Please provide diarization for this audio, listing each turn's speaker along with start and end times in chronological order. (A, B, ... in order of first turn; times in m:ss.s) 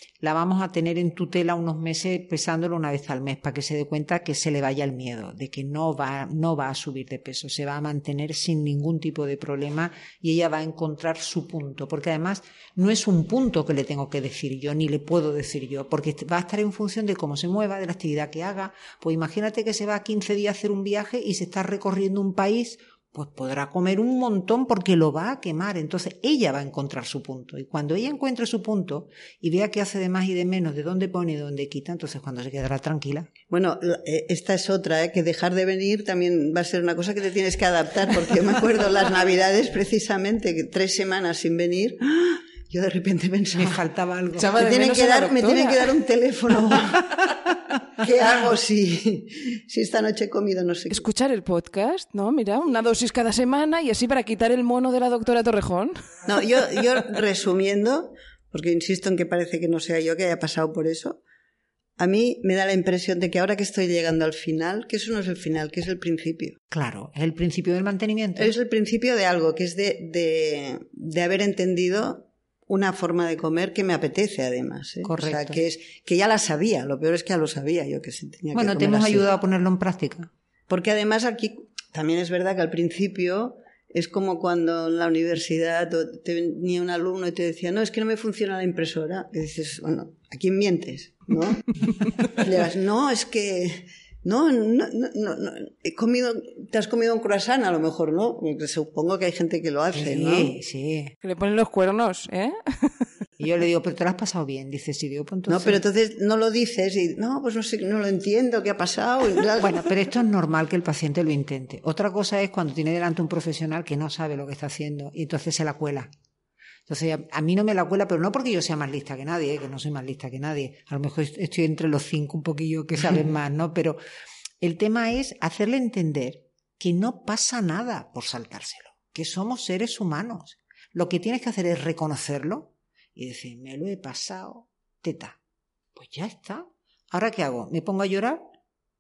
0:00.2-0:33.3 A
0:33.5-0:43.8 B
0:43.5-0:44.7 A
0:44.4-0:45.9 C
0:44.4-0:47.1 B
0:48.0-0:51.0 B
0:50.9-0:56.1 C
0:56.3-1:01.2 B
1:02.0-1:06.6 B
1:06.7-1:08.6 A
1:08.4-1:19.3 B
1:15.0-1:15.6 A
1:18.5-1:20.3 A
1:20.7-1:40.5 B
1:39.9-1:41.1 A
1:41.2-1:43.0 C
1:43.4-1:45.8 A
1:45.5-1:49.8 B
1:49.6-1:56.1 A
1:56.9-2:04.0 A
2:04.6-2:15.4 A
2:16.0-2:18.4 A